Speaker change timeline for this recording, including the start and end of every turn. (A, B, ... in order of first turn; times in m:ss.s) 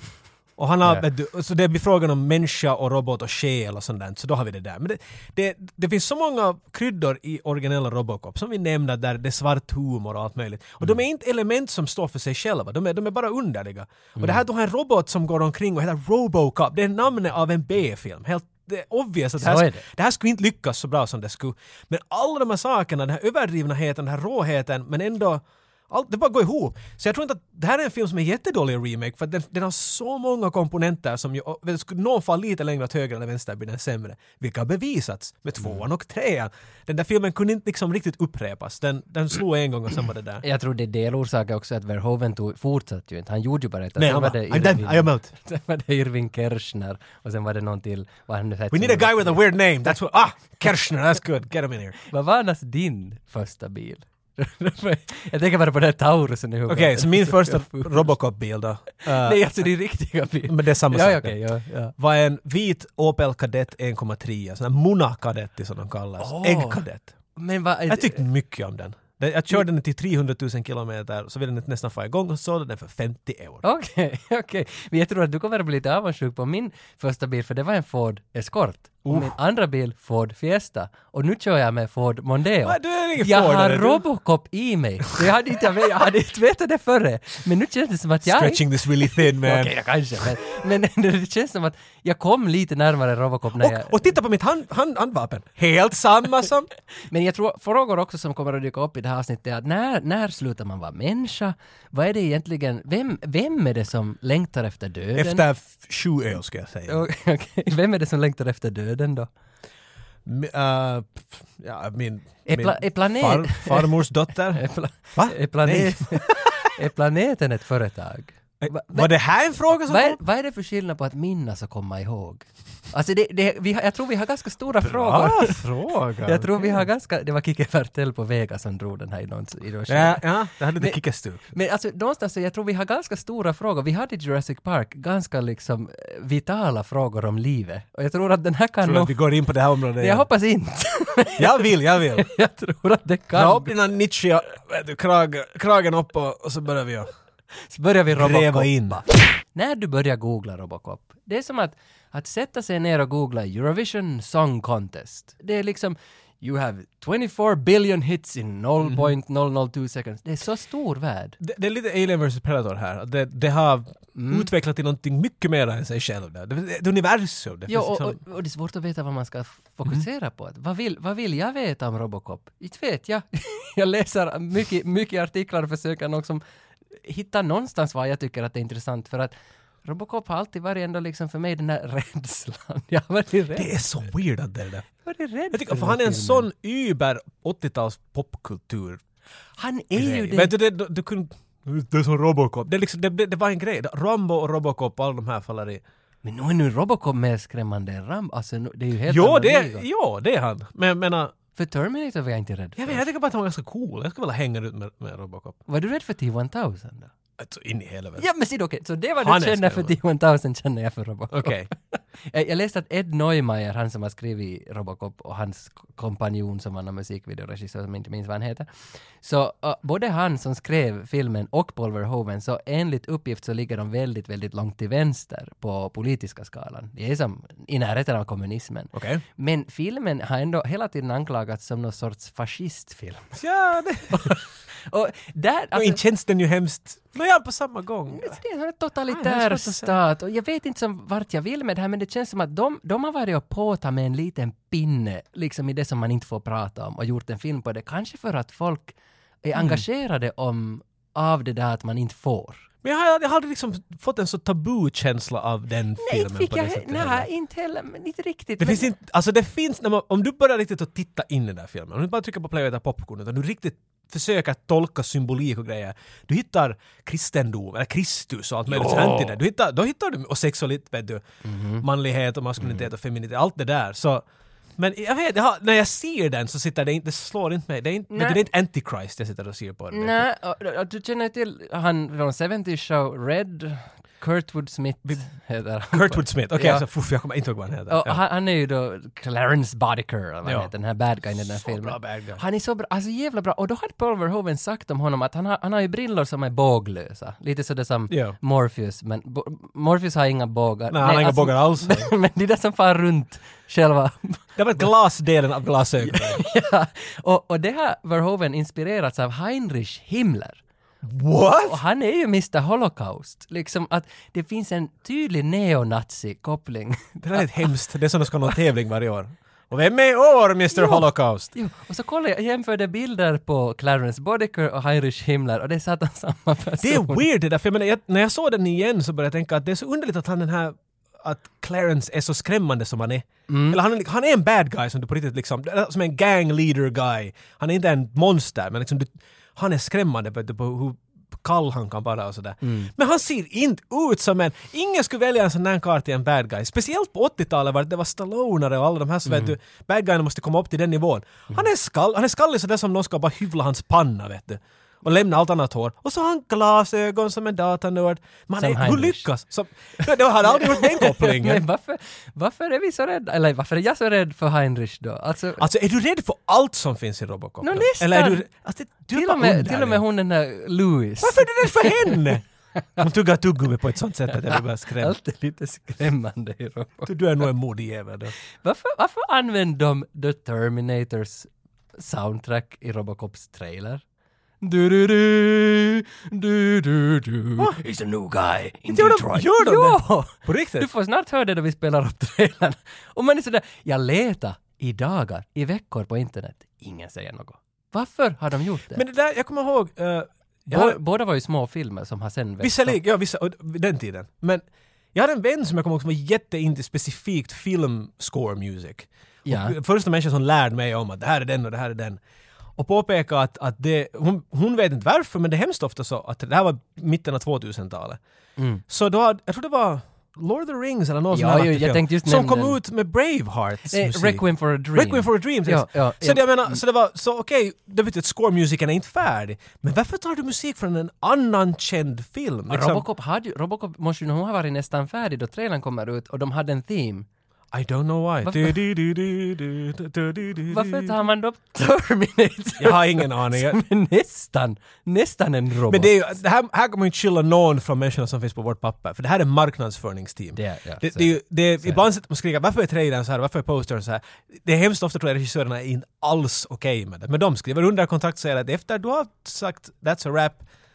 0:00.6-0:40.4 A
0:14.2-0:14.4 B
0:19.4-0:19.8 B
0:40.4-0:49.5 B
0:44.0-0:45.3 A
0:48.7-0:52.0 A
0:52.1-0:58.1 B
0:56.7-0:59.7 A
0:59.0-1:01.9 B
1:00.5-1:07.1 A
1:06.2-1:08.2 B
1:07.9-1:13.6 A
1:13.6-1:34.0 B
1:19.0-1:19.3 A
1:22.6-1:24.0 A
1:28.2-1:29.8 A
1:33.6-1:36.7 A
1:37.1-1:45.4 B
1:45.1-1:47.0 A
1:46.9-1:49.3 B
1:50.2-1:56.7 A
1:52.4-1:59.1 B
1:58.6-2:00.2 A
1:59.9-2:05.6 B
2:04.8-2:06.9 A
2:06.2-2:19.2 B
2:09.9-2:11.4 A
2:18.8-2:20.2 A
2:20.0-2:23.7 B
2:21.4-2:22.3 A
2:23.3-2:27.1 A
2:27.7-2:41.4 B
2:28.1-2:29.0 A
2:38.8-2:39.1 A
2:41.4-2:48.2 A
2:44.1-2:44.5 B
2:47.7-2:56.4 B
2:57.0-2:59.3 B
2:59.8-3:03.7 B
3:03.5-3:04.8 A
3:05.0-3:06.5 B
3:05.5-3:09.0 A
3:09.6-3:10.5 B
3:09.9-3:15.8 A
3:16.2-3:19.8 B
3:19.1-3:21.3 A
3:21.6-3:23.1 B
3:22.8-3:25.6 A
3:25.7-3:27.1 B
3:27.4-3:28.2 A
3:28.2-3:38.7 B
3:29.2-3:30.0 A
3:31.3-3:31.7 A
3:39.2-3:53.4 B
3:48.9-3:49.2 A
3:53.4-3:54.4 A
3:54.1-3:56.0 B
3:55.7-3:58.4 A
3:58.1-4:12.6 B
3:59.1-4:00.0 A
4:09.5-4:09.8 A
4:12.8-4:17.3 A
4:16.0-4:18.9 B
4:18.6-4:31.2 A
4:28.7-4:29.3 B
4:31.4-4:31.8 B
4:31.8-4:34.2 A
4:32.6-4:32.8 B
4:34.8-4:40.2 A
4:38.1-4:38.4 B
4:39.9-4:46.8 B
4:45.9-4:48.2 A
4:47.9-5:04.4 B
4:50.4-4:50.7 A
4:51.4-4:52.4 A
4:58.1-4:58.4 A
5:00.9-5:02.1 A
5:04.6-5:06.4 A
5:06.0-5:10.6 B
5:11.0-5:11.8 A
5:11.6-5:17.5 B
5:17.2-5:21.5 A
5:20.7-5:27.2 B
5:26.8-6:01.6 A
5:33.5-5:33.8 B
5:42.6-5:42.9 B
5:49.3-5:49.5 B
5:58.6-5:59.3 B
6:00.4-6:05.6 B
6:05.6-6:10.0 A
6:07.6-6:08.4 B
6:09.1-6:12.2 B
6:11.2-6:12.4 A
6:13.0-6:15.2 A
6:14.3-6:17.1 B
6:17.0-6:18.3 A
6:18.6-6:24.0 B
6:24.6-6:39.0 B
6:28.9-6:30.9 A
6:38.9-6:41.0 A
6:40.7-6:43.0 B
6:42.6-6:52.2 A
6:49.4-6:49.8 B
6:52.8-6:58.2 A
6:58.6-6:58.8 B
6:58.9-7:13.0 A
7:01.3-7:02.8 B
7:03.9-7:06.8 B
7:12.7-7:17.3 B
7:17.7-7:21.1 A
7:18.4-7:18.8 B
7:20.7-7:26.2 B
7:22.8-7:23.8 A
7:25.9-7:40.6 A
7:30.6-7:32.0 B